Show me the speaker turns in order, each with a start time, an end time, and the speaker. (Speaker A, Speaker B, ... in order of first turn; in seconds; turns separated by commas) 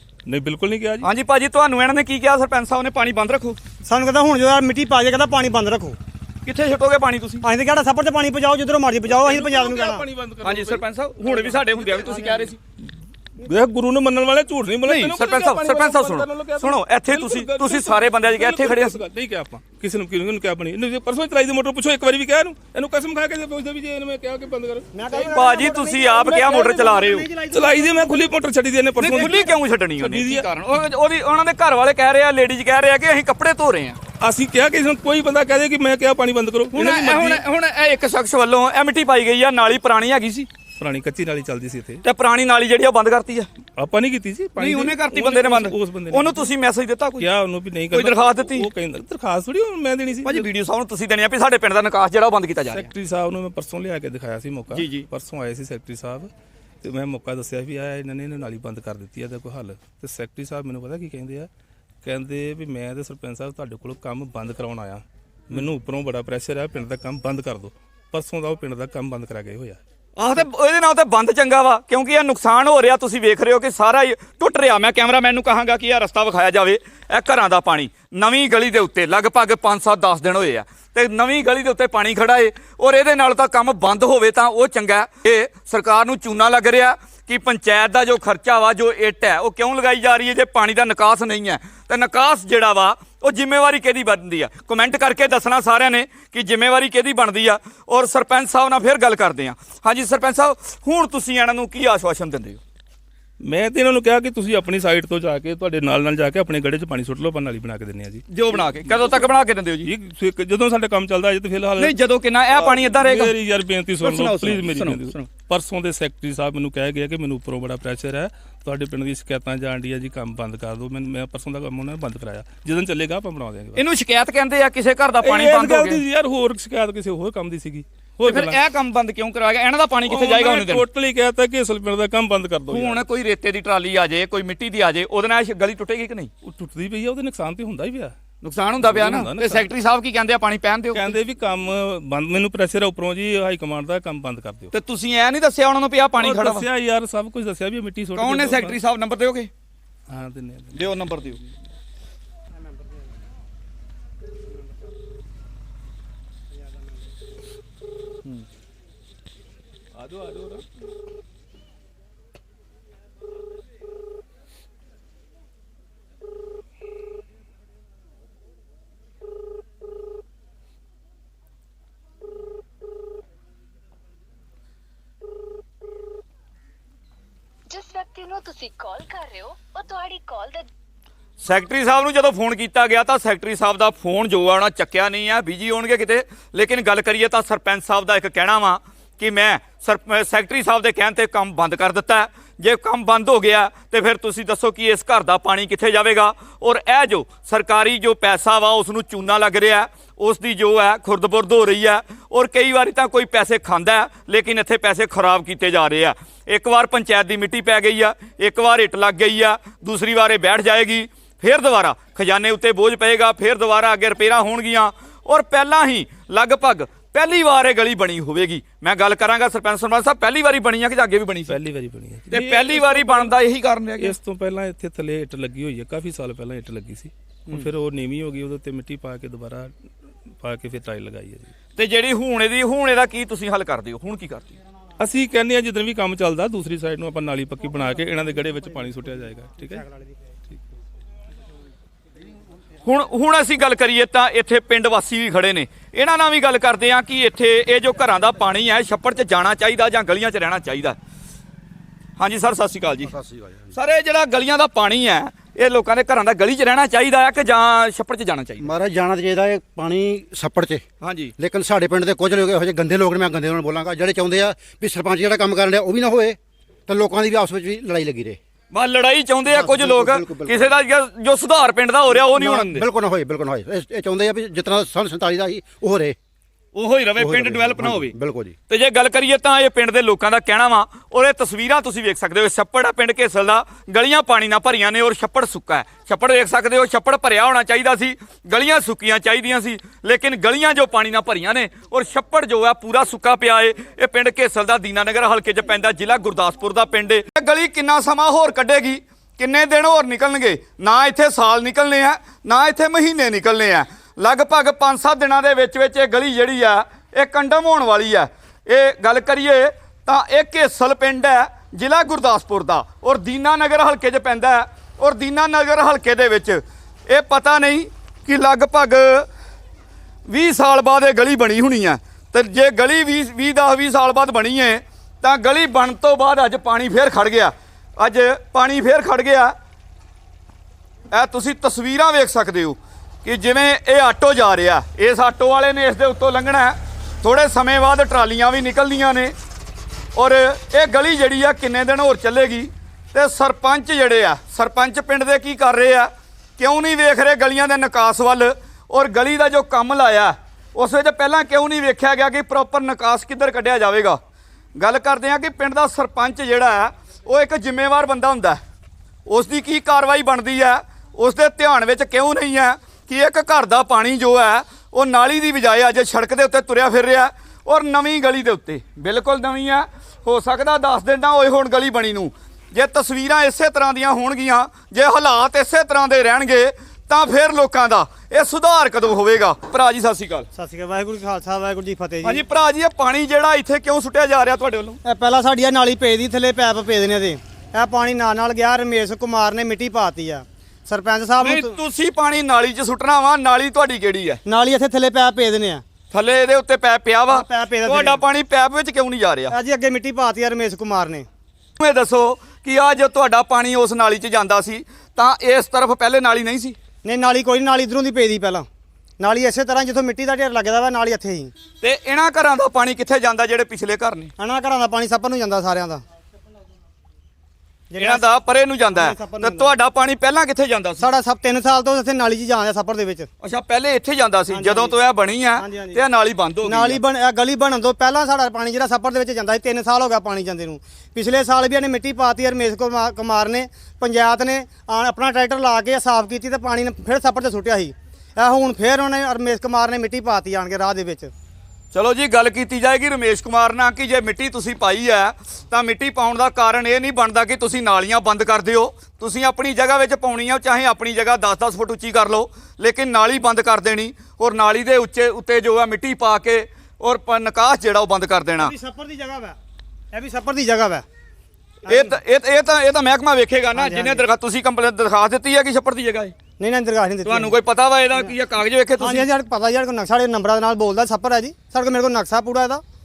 Speaker A: 0.2-1.1, Speaker B: 1.0-3.6, Speaker C: 3.9-6.0, Speaker B: 6.4-7.4, Speaker C: 7.4-10.1, Speaker A: 9.1-12.6, Speaker B: 10.4-12.6, Speaker A: 13.4-24.9, Speaker B: 14.8-19.0, Speaker C: 24.9-28.2, Speaker B: 25.1-27.2, Speaker A: 27.5-30.5, Speaker B: 29.0-34.0, Speaker C: 29.0-29.4, Speaker A: 34.2-37.4, Speaker B: 36.7-40.5, Speaker A: 40.8-42.0, Speaker B: 42.0-43.5, Speaker A: 43.8-46.5, Speaker B: 44.6-47.3, Speaker A: 47.2-50.5, Speaker B: 47.9-48.7, Speaker B: 50.2-52.9, Speaker A: 52.7-56.3, Speaker B: 54.7-55.1, Speaker A: 56.8-61.5, Speaker A: 62.0-69.8, Speaker B: 70.2-102.6, Speaker A: 103.4-109.3, Speaker B: 108.3-109.9, Speaker A: 109.8-111.9, Speaker B: 111.8-113.3, Speaker A: 112.5-123.8, Speaker B: 114.0-115.3, Speaker B: 123.8-126.0, Speaker A: 125.2-128.6, Speaker B: 128.2-130.8, Speaker A: 130.1-133.0, Speaker B: 132.7-136.3, Speaker A: 136.4-138.1, Speaker B: 138.4-141.2, Speaker A: 138.8-139.7, Speaker A: 140.9-144.7, Speaker B: 144.7-146.7, Speaker A: 146.2-148.8, Speaker B: 148.2-149.5, Speaker A: 150.1-151.4, Speaker B: 150.7-151.4, Speaker A: 159.9-160.6, Speaker D: 177.7-180.7, Speaker B: 181.4-221.6, Speaker A: 221.5-223.3, Speaker B: 222.3-224.1, Speaker A: 224.0-229.7, Speaker A: 230.4-231.5, Speaker B: 231.8-234.5, Speaker A: 235.0-239.8, Speaker C: 239.7-240.2, Speaker B: 242.8-251.0, Speaker B: 252.2-253.2, Speaker E: 253.1-253.7, Speaker B: 253.7-258.7, Speaker E: 258.6-260.8, Speaker B: 261.0-261.3, Speaker E: 261.4-268.4, Speaker B: 268.7-272.8, Speaker E: 269.5-270.8, Speaker E: 272.1-276.1, Speaker B: 276.7-278.1, Speaker E: 277.2-278.5, Speaker B: 278.7-319.3, Speaker B: 320.3-329.5, Speaker B: 331.1-339.3, Speaker B: 340.1-354.2, Speaker B: 354.8-358.6, Speaker B: 359.3-380.5, Speaker C: 380.5-382.4, Speaker B: 382.2-385.0, Speaker C: 385.0-391.8, Speaker B: 391.4-394.4, Speaker C: 394.4-395.8, Speaker B: 396.1-399.6, Speaker C: 397.3-398.2, Speaker C: 399.5-401.2, Speaker B: 401.8-406.8, Speaker C: 407.0-408.6, Speaker C: 409.2-411.5, Speaker B: 411.8-414.3, Speaker C: 414.4-416.0, Speaker C: 417.9-418.4, Speaker B: 418.0-421.1, Speaker C: 418.9-419.7, Speaker C: 421.0-423.3, Speaker B: 423.4-427.0, Speaker C: 424.5-425.0, Speaker C: 425.6-426.0, Speaker C: 426.6-441.3, Speaker B: 441.9-458.7, Speaker C: 458.6-459.6, Speaker C: 460.1-461.0, Speaker C: 461.9-462.1, Speaker B: 461.9-466.3, Speaker C: 463.7-464.2, Speaker C: 466.6-467.5, Speaker B: 467.2-469.3, Speaker C: 469.0-472.8